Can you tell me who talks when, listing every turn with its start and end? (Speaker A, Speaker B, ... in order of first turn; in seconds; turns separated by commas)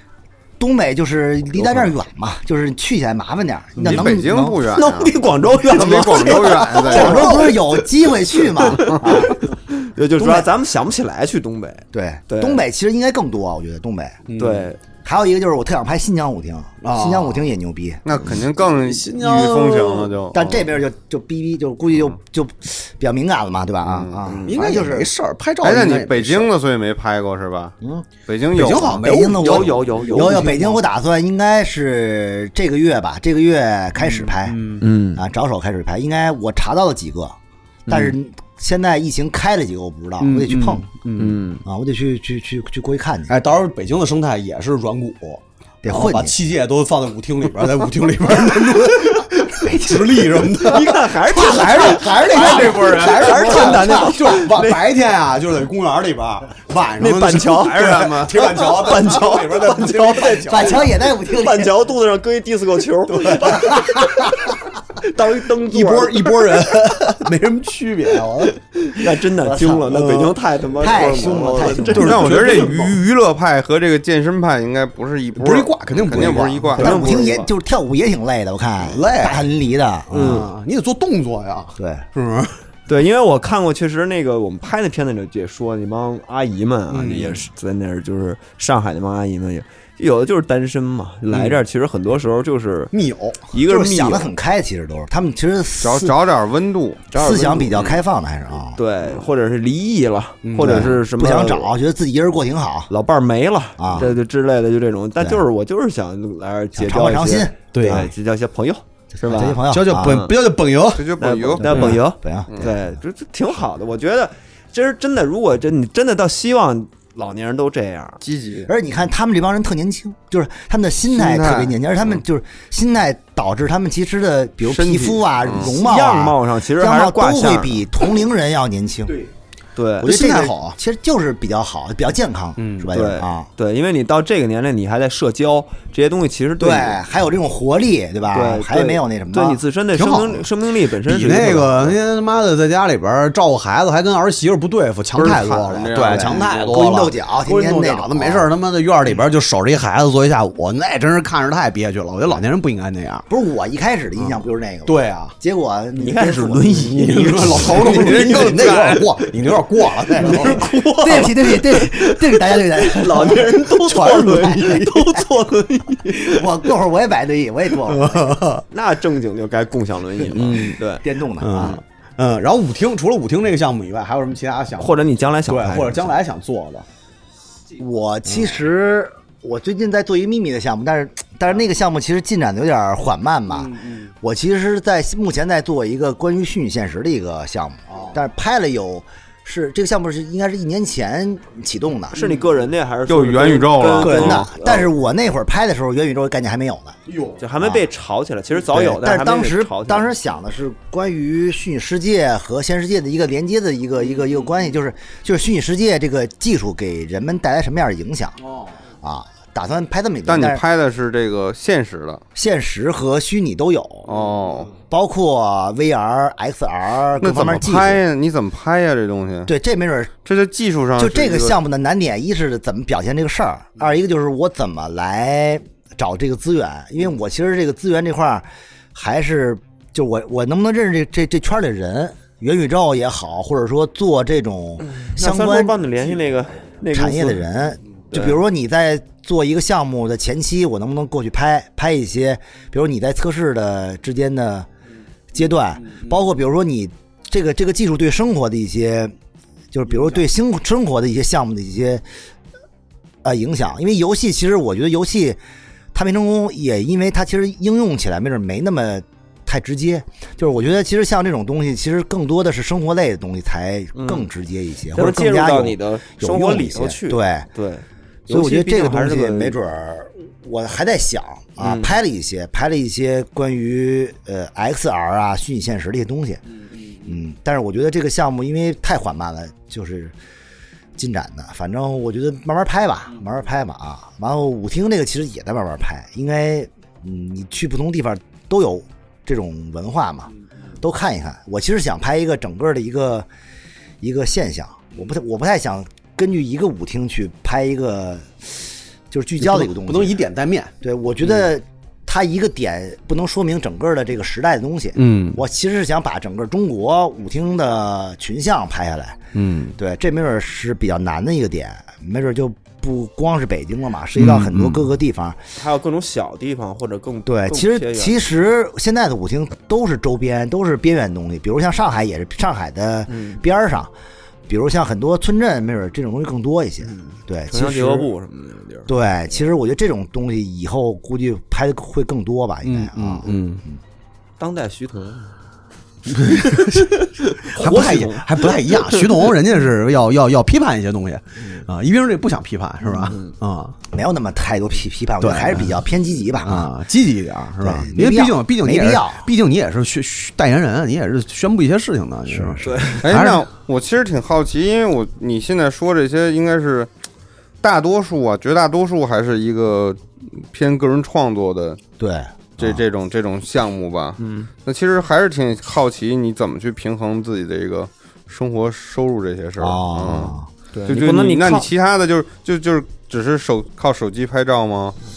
Speaker A: 0.6-4.7, Speaker B: 3.8-7.4, Speaker C: 4.7-7.7, Speaker A: 6.7-9.4, Speaker D: 6.8-7.5, Speaker C: 8.5-12.6, Speaker A: 10.2-10.5, Speaker A: 11.9-14.2, Speaker D: 14.3-14.7, Speaker C: 14.4-14.8, Speaker A: 15.0-18.0, Speaker D: 16.8-17.4, Speaker B: 18.0-20.6, Speaker D: 18.6-20.1, Speaker A: 20.3-25.1, Speaker B: 23.9-24.2, Speaker C: 24.2-24.6, Speaker D: 24.4-26.5, Speaker B: 25.6-27.8, Speaker A: 27.8-34.6, Speaker B: 28.3-29.1, Speaker D: 28.5-30.8, Speaker C: 29.2-30.8, Speaker D: 34.0-34.8, Speaker C: 34.8-35.2, Speaker A: 35.1-40.9, Speaker D: 40.2-41.4, Speaker C: 41.2-41.6, Speaker A: 41.6-43.4, Speaker D: 43.3-60.9, Speaker A: 45.8-46.3, Speaker A: 49.5-50.6, Speaker C: 50.6-54.8, Speaker A: 51.4-54.4, Speaker B: 52.3-53.3, Speaker C: 57.0-64.4, Speaker B: 57.8-58.5, Speaker A: 60.5-61.8, Speaker D: 63.1-64.3, Speaker C: 65.0-67.2, Speaker D: 65.6-68.5, Speaker C: 68.3-72.5, Speaker A: 69.4-70.1, Speaker D: 69.9-73.0, Speaker A: 70.8-72.3, Speaker B: 71.9-77.1, Speaker D: 75.3-77.2, Speaker C: 76.2-77.5, Speaker A: 76.8-80.5, Speaker D: 78.8-79.4, Speaker D: 80.1-82.6, Speaker C: 80.1-80.5, Speaker A: 81.8-82.0, Speaker C: 82.9-92.9, Speaker D: 86.9-87.4, Speaker D: 91.3-91.6, Speaker D: 92.9-93.4, Speaker C: 93.5-94.3, Speaker A: 93.6-96.2, Speaker B: 95.8-97.0, Speaker C: 97.1-98.0, Speaker A: 97.1-98.8, Speaker C: 98.7-101.7, Speaker D: 100.4-101.0, Speaker A: 100.6-102.9, Speaker C: 102.9-110.3, Speaker A: 103.8-104.2, Speaker A: 106.7-108.1, Speaker D: 107.7-108.1, Speaker A: 109.2-110.3, Speaker D: 109.7-111.1, Speaker B: 111.0-112.0, Speaker C: 111.2-118.2, Speaker A: 111.6-112.8, Speaker D: 111.6-112.0, Speaker B: 118.2-118.7, Speaker A: 118.7-129.2, Speaker B: 121.1-121.8, Speaker B: 124.6-125.7, Speaker C: 125.5-127.9, Speaker C: 129.8-130.1, Speaker A: 130.0-133.5, Speaker D: 130.0-130.8, Speaker D: 132.6-132.9, Speaker C: 132.9-137.0, Speaker A: 136.6-139.6, Speaker C: 138.3-142.0, Speaker D: 139.9-140.5, Speaker D: 141.0-153.2, Speaker B: 145.1-146.8, Speaker A: 146.0-148.5, Speaker A: 153.3-156.9, Speaker D: 154.8-155.3, Speaker C: 155.9-158.5, Speaker D: 156.8-161.3, Speaker B: 157.7-159.0, Speaker C: 160.1-166.4, Speaker A: 160.2-163.6, Speaker D: 163.2-165.3, Speaker A: 164.3-164.8, Speaker A: 166.1-168.3, Speaker D: 167.8-168.6, Speaker C: 168.7-171.0, Speaker D: 170.3-170.8, Speaker A: 170.3-171.8, Speaker D: 171.4-176.8, Speaker C: 174.8-176.2, Speaker A: 177.8-192.2, Speaker D: 183.6-184.1, Speaker C: 192.1-194.9, Speaker B: 193.1-194.5, Speaker A: 193.9-197.0, Speaker D: 197.1-197.4, Speaker C: 197.4-200.1, Speaker A: 197.6-197.8, Speaker A: 198.7-208.4, Speaker D: 208.4-208.7, Speaker A: 209.0-210.6, Speaker B: 210.3-212.2, Speaker A: 212.3-214.1, Speaker B: 214.1-214.7, Speaker A: 214.9-218.0, Speaker B: 217.2-219.5, Speaker A: 219.5-220.1, Speaker B: 220.2-221.6, Speaker A: 221.0-235.8, Speaker C: 234.8-237.4, Speaker A: 236.9-244.7, Speaker C: 238.1-238.4, Speaker A: 245.3-249.1, Speaker A: 249.7-252.0, Speaker A: 253.2-255.4, Speaker A: 255.9-267.5, Speaker C: 263.9-264.2, Speaker C: 264.9-269.6, Speaker A: 268.3-276.4, Speaker C: 271.6-271.9, Speaker A: 277.0-280.1, Speaker A: 281.0-293.3, Speaker A: 294.0-300.2, Speaker D: 299.4-300.7, Speaker A: 300.8-309.2, Speaker D: 304.9-305.4, Speaker D: 309.3-309.8, Speaker A: 309.8-315.4, Speaker D: 314.1-314.9, Speaker C: 315.6-318.3, Speaker A: 317.2-323.9, Speaker C: 323.1-323.4, Speaker A: 324.5-328.1, Speaker C: 326.9-328.9, Speaker A: 328.9-333.8, Speaker D: 332.6-333.6, Speaker C: 334.4-335.3, Speaker D: 336.1-343.8, Speaker C: 336.2-339.1, Speaker C: 342.8-343.3, Speaker A: 343.9-346.7, Speaker D: 345.2-345.8, Speaker D: 346.4-353.5, Speaker A: 347.6-349.3, Speaker A: 352.3-352.7, Speaker C: 352.6-353.1, Speaker B: 353.0-356.9, Speaker B: 357.6-361.8, Speaker A: 362.0-362.8, Speaker B: 362.6-370.3, Speaker C: 364.2-364.5, Speaker A: 369.6-370.5, Speaker C: 370.7-371.7, Speaker B: 370.9-375.0